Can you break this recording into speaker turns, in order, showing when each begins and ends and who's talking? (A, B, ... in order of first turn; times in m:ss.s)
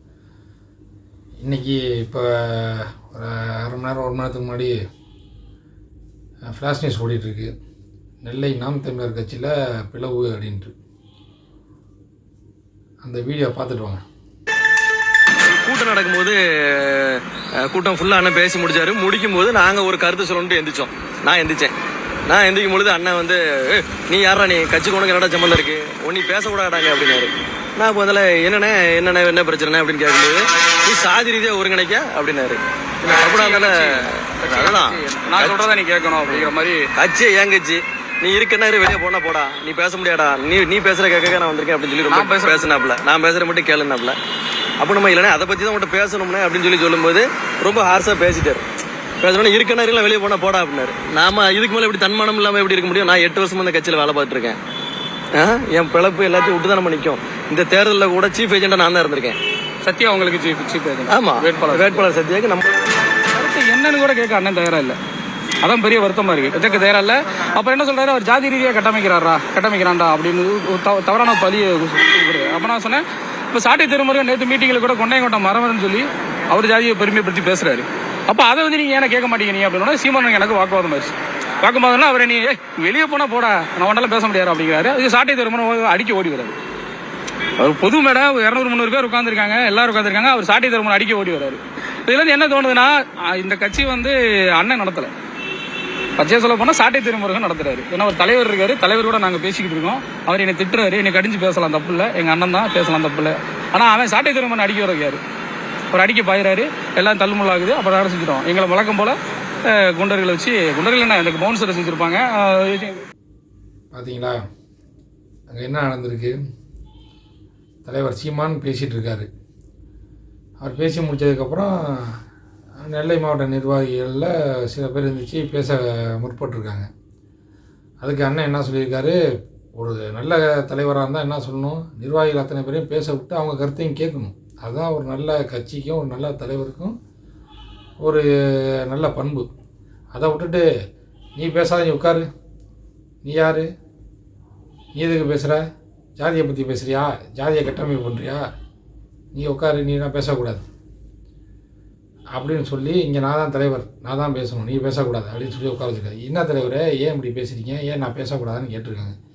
0:01.4-0:04.8 A
0:06.5-0:07.5 A
0:08.2-0:10.7 A
0:13.0-0:14.0 A
0:15.5-0:21.7 B
0:22.3-0:35.7 B
0:33.0-0:36.9 C
0:36.3-0:44.2 B
0:42.1-0:42.8 C
0:44.8-0:48.6 B
0:49.2-0:54.6 B
0:55.3-0:59.4 B
0:59.8-1:02.0 C
1:01.1-1:02.6 B
1:03.4-1:05.0 C
1:05.6-1:26.6 C
1:27.6-1:35.1 C
1:36.2-1:45.2 C
1:45.9-1:53.0 C
1:53.9-1:54.4 A
1:55.5-1:56.3 A
1:57.8-1:59.3 A
2:00.6-2:02.2 A
2:02.8-2:06.9 A
2:08.0-2:09.2 A
2:09.8-2:16.9 A
2:18.0-2:19.5 A
2:20.1-2:20.7 A
2:21.4-2:22.2 A
2:23.2-2:23.7 A
2:24.9-2:25.6 A
2:26.2-2:28.5 A
2:29.3-2:30.6 A
2:32.4-2:39.2 A